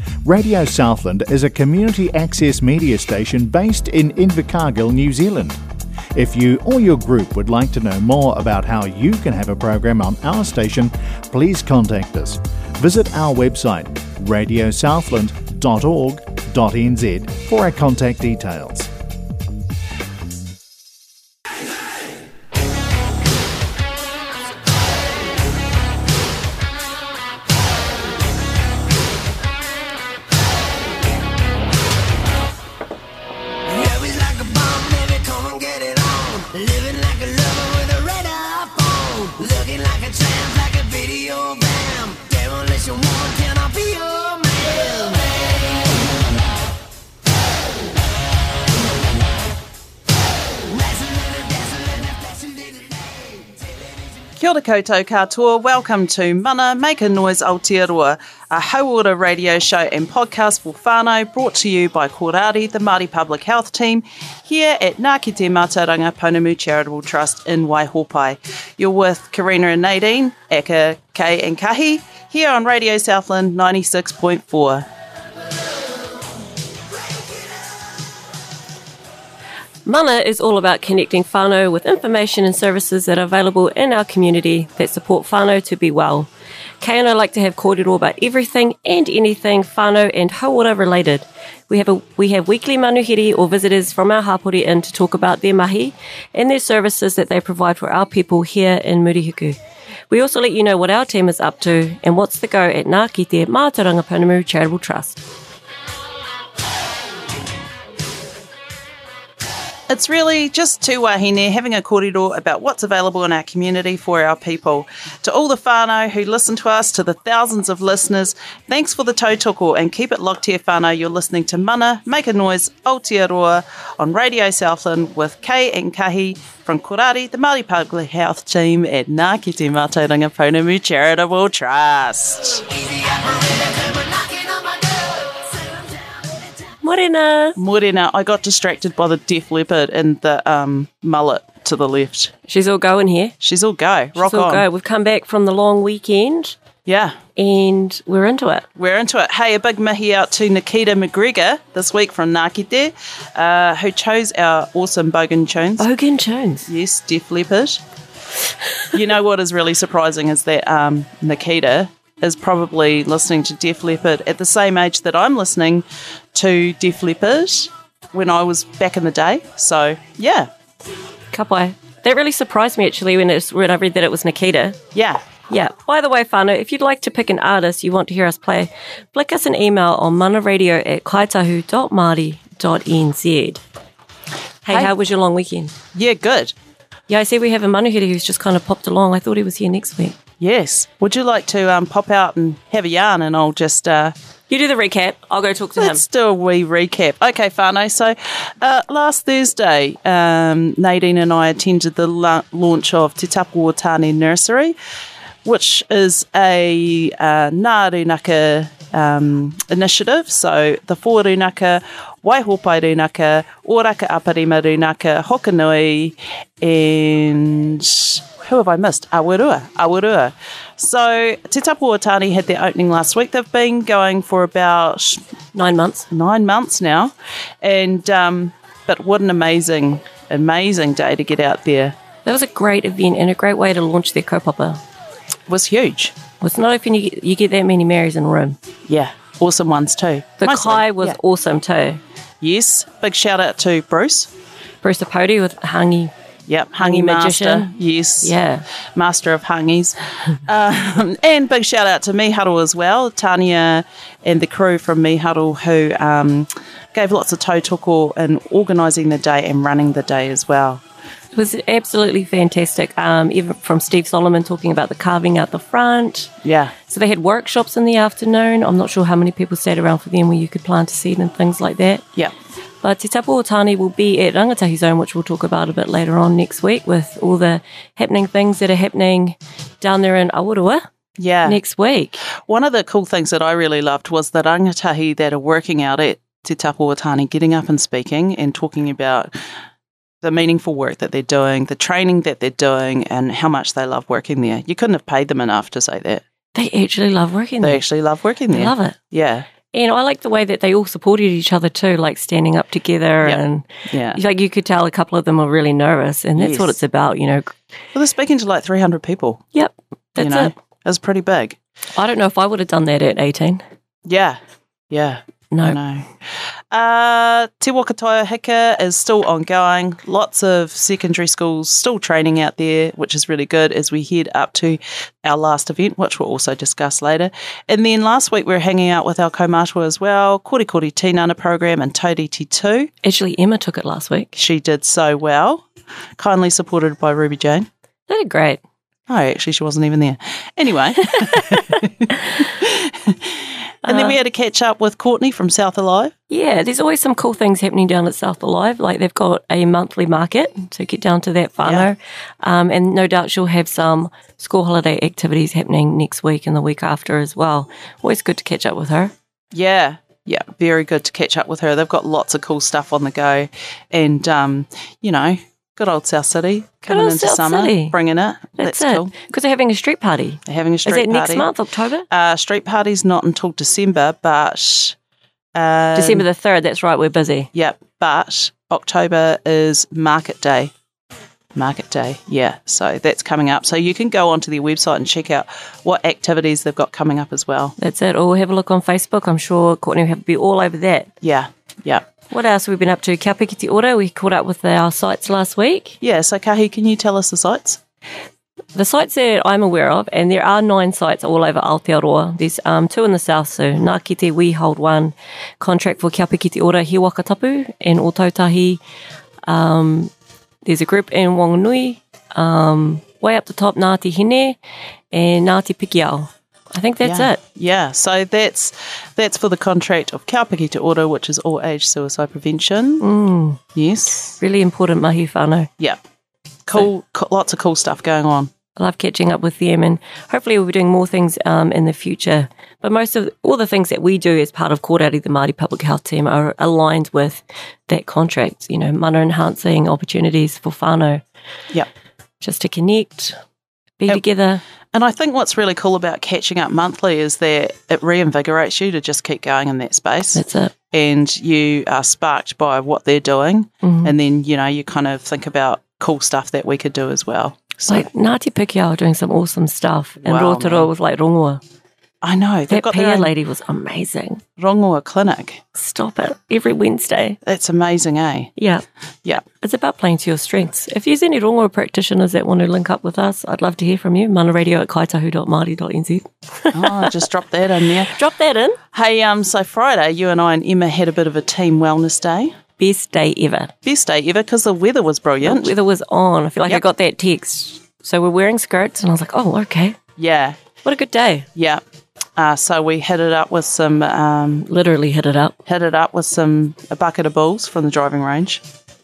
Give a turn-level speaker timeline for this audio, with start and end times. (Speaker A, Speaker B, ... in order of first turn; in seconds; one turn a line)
Speaker A: 0.2-5.6
Speaker A: 6.2-18.9
Speaker B: 33.7-45.5
Speaker B: 50.7-53.5
Speaker C: 54.4-74.9
Speaker D: 79.8-86.3
Speaker D: 86.8-99.6
Speaker D: 100.1-105.2
Speaker C: 109.9-132.6
Speaker B: 132.6-136.0
Speaker D: 136.8-137.6
Speaker C: 137.6-142.3
Speaker D: 142.5-143.3
Speaker C: 143.4-144.7
Speaker D: 144.2-146.6
Speaker C: 146.9-147.2
Speaker D: 147.4-148.7
Speaker C: 148.8-155.9
Speaker D: 155.8-156.7
Speaker C: 156.7-157.8
Speaker C: 158.9-170.5
Speaker D: 171.3-174.8
Speaker C: 174.9-175.2
Speaker D: 175.5-183.6
Speaker D: 184.7-185.7
Speaker C: 185.9-186.5
Speaker D: 187.1-190.2
Speaker C: 190.4-194.2
Speaker D: 194.5-196.0
Speaker C: 195.8-204.8
Speaker C: 205.4-225.2
Speaker D: 225.5-226.1
Speaker C: 226.1-232.0
Speaker D: 232.2-234.8
Speaker C: 235.5-236.2
Speaker D: 236.4-238.6
Speaker C: 238.9-241.2
Speaker D: 240.4-242.0
Speaker C: 242.4-244.3
Speaker D: 244.8-246.1
Speaker C: 246.5-248.3
Speaker D: 246.8-247.7
Speaker D: 248.2-248.6
Speaker C: 248.9-260.8
Speaker D: 261.3-266.3
Speaker C: 266.4-266.8
Speaker D: 266.9-272.0
Speaker D: 272.8-280.9
Speaker C: 281.2-281.6
Speaker D: 281.5-282.2
Speaker C: 282.4-289.3
Speaker C: 290.2-296.2
Speaker D: 296.5-297.8
Speaker C: 297.6-299.5
Speaker D: 298.5-299.0
Speaker D: 299.7-307.6
Speaker C: 303.2-304.2
Speaker C: 306.4-306.8
Speaker C: 307.9-309.5
Speaker D: 309.5-310.5
Speaker C: 310.2-311.6
Speaker D: 312.0-313.6
Speaker C: 314.1-314.4
Speaker C: 314.9-316.1
Speaker D: 315.5-315.8
Speaker C: 316.7-332.9
Speaker D: 333.0-334.3
Speaker C: 334.4-335.6
Speaker C: 336.2-337.7
Speaker D: 338.1-338.6
Speaker C: 339.1-346.1
Speaker D: 341.2-341.8
Speaker D: 343.9-344.2
Speaker D: 346.3-359.1
Speaker C: 359.5-369.1
Speaker D: 366.9-368.0
Speaker D: 368.6-372.1
Speaker C: 370.5-371.5
Speaker C: 372.1-375.0
Speaker C: 375.6-376.2
Speaker D: 375.9-377.5
Speaker C: 377.5-380.7
Speaker C: 381.6-387.8
Speaker D: 387.8-391.1
Speaker C: 391.2-392.0
Speaker D: 392.3-396.0
Speaker C: 396.0-397.8
Speaker D: 398.8-408.8
Speaker D: 409.5-410.1
Speaker D: 410.6-414.6
Speaker D: 415.1-417.4
Speaker C: 417.0-423.1
Speaker D: 423.0-423.6
Speaker C: 423.8-424.4
Speaker D: 424.4-425.7
Speaker C: 426.7-428.5
Speaker D: 428.8-441.2
Speaker D: 442.4-443.4
Speaker D: 444.0-444.6
Speaker C: 444.9-458.1
Speaker D: 450.4-450.7
Speaker D: 453.8-454.1
Speaker D: 457.9-461.6
Speaker C: 460.2-460.9
Speaker C: 462.2-463.3
Speaker D: 462.7-464.4
Speaker C: 464.6-465.6
Speaker D: 465.8-467.4
Speaker C: 467.4-468.5
Speaker D: 468.6-468.8
Speaker D: 469.5-477.2
Speaker C: 476.7-478.2
Speaker D: 478.1-478.8
Speaker C: 478.9-482.6
Speaker D: 482.8-483.7
Speaker C: 483.9-485.7
Speaker D: 485.4-490.0
Speaker C: 490.2-490.6
Speaker D: 490.8-491.5
Speaker C: 491.6-491.8
Speaker C: 492.4-494.7
Speaker D: 494.6-495.6
Speaker C: 495.7-498.6